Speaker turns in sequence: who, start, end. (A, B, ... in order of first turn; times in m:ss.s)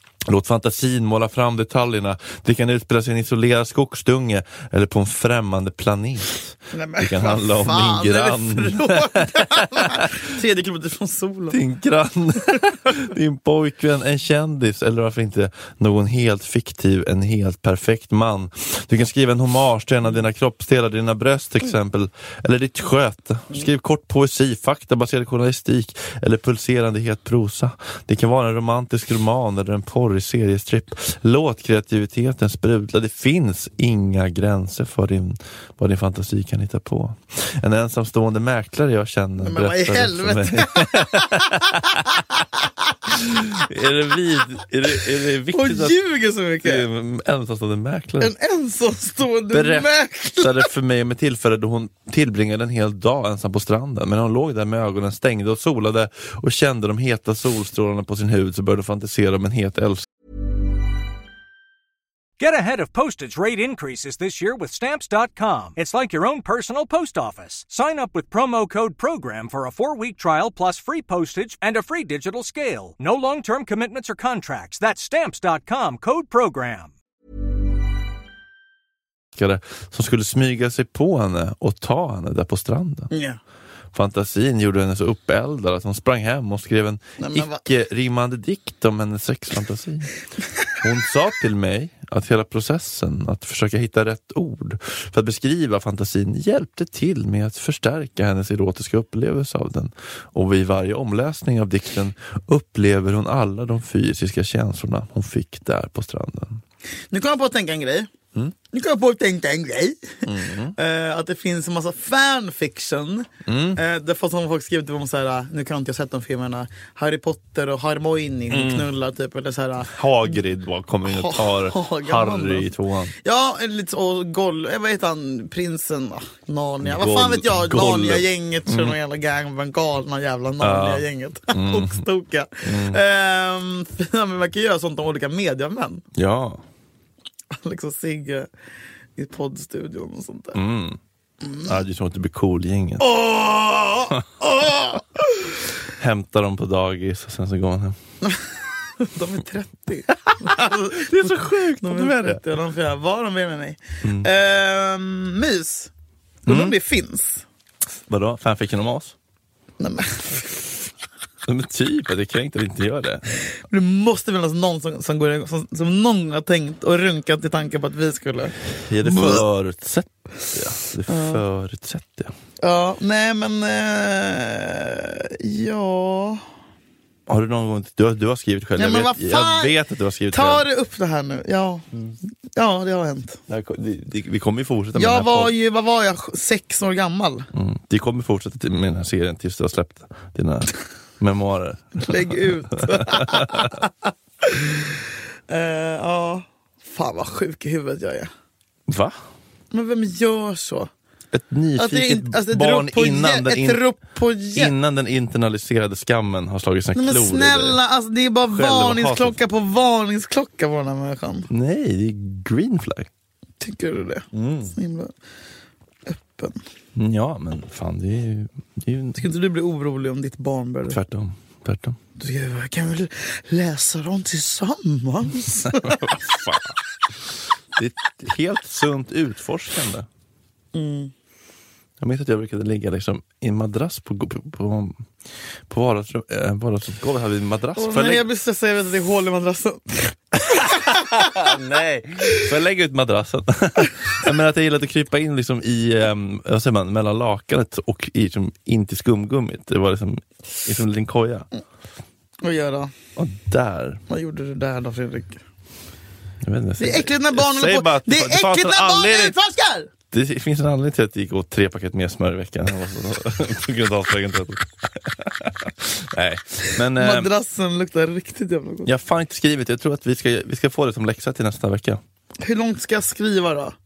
0:00.3-0:10.1 A
0:06.7-0:11.6 B
0:11.5-0:42.2 A
0:39.4-0:42.7 B
0:43.1-0:46.0 A
0:45.5-0:46.9 B
0:46.6-0:48.3 A
0:48.2-0:50.7 B
0:49.5-1:00.1 A
1:02.4-1:16.9 C
1:19.4-1:23.1 A
1:23.1-1:23.4 B
1:23.9-1:30.1 A
1:27.2-1:27.6 B
1:30.8-1:46.6 A
1:47.1-1:48.1 B
1:48.7-1:50.1 B
1:50.2-1:50.8 A
1:50.8-2:00.4 B
1:53.5-1:53.8 A
1:58.5-1:58.9 A
1:59.9-2:03.1 A
2:01.1-2:02.7 B
2:03.2-2:16.0 B
2:06.8-2:09.0 A
2:10.6-2:12.0 A
2:12.6-2:13.0 A
2:16.1-2:16.6 A
2:17.5-2:18.5 B
2:19.2-2:20.6 B
2:20.5-2:21.0 A
2:21.6-2:23.2 A
2:23.0-2:25.5 B
2:26.0-2:28.0 A
2:29.0-2:35.9 B
2:30.4-2:32.4 A
2:34.0-2:34.3 A
2:36.5-2:37.4 B
2:36.5-2:36.8 A
2:38.1-2:39.1 A
2:39.8-2:40.7 B
2:41.5-2:43.3 A
2:43.7-2:49.4 B
2:48.8-2:52.3 A
2:51.1-2:51.4 B
2:52.6-2:56.4 B
2:57.3-3:00.6 A
2:58.8-2:59.8 B
3:00.3-3:01.8 B
3:02.6-3:03.4 B
3:03.5-3:05.5 A
3:05.0-3:07.5 B
3:07.5-3:13.8 A
3:12.0-3:18.3 B
3:18.9-3:19.1 A
3:19.7-3:20.9 B
3:21.3-3:23.8 A
3:21.8-3:24.7 B
3:24.5-3:27.8 A
3:26.9-3:31.5 B
3:28.5-3:29.4 A
3:31.5-3:33.1 A
3:33.6-3:35.1 B
3:34.3-3:34.7 A
3:36.1-3:36.6 B
3:37.0-3:39.3 A
3:39.2-3:41.0 B
3:40.9-3:42.0 A
3:42.2-3:46.1 B
3:45.7-3:46.8 A
3:47.8-3:50.1 A
3:50.7-3:51.1 B
3:52.0-3:55.0 A
3:55.7-3:58.2 A
3:57.8-4:01.3 B
4:00.7-4:11.5 A
4:12.4-4:12.9 B
4:13.2-4:14.0 A
4:14.1-4:15.4 B
4:16.4-4:19.4 A
4:16.8-4:19.9 B
4:20.1-4:27.3 A
4:26.9-4:28.9 B
4:28.8-4:32.0 A
4:32.4-4:33.8 B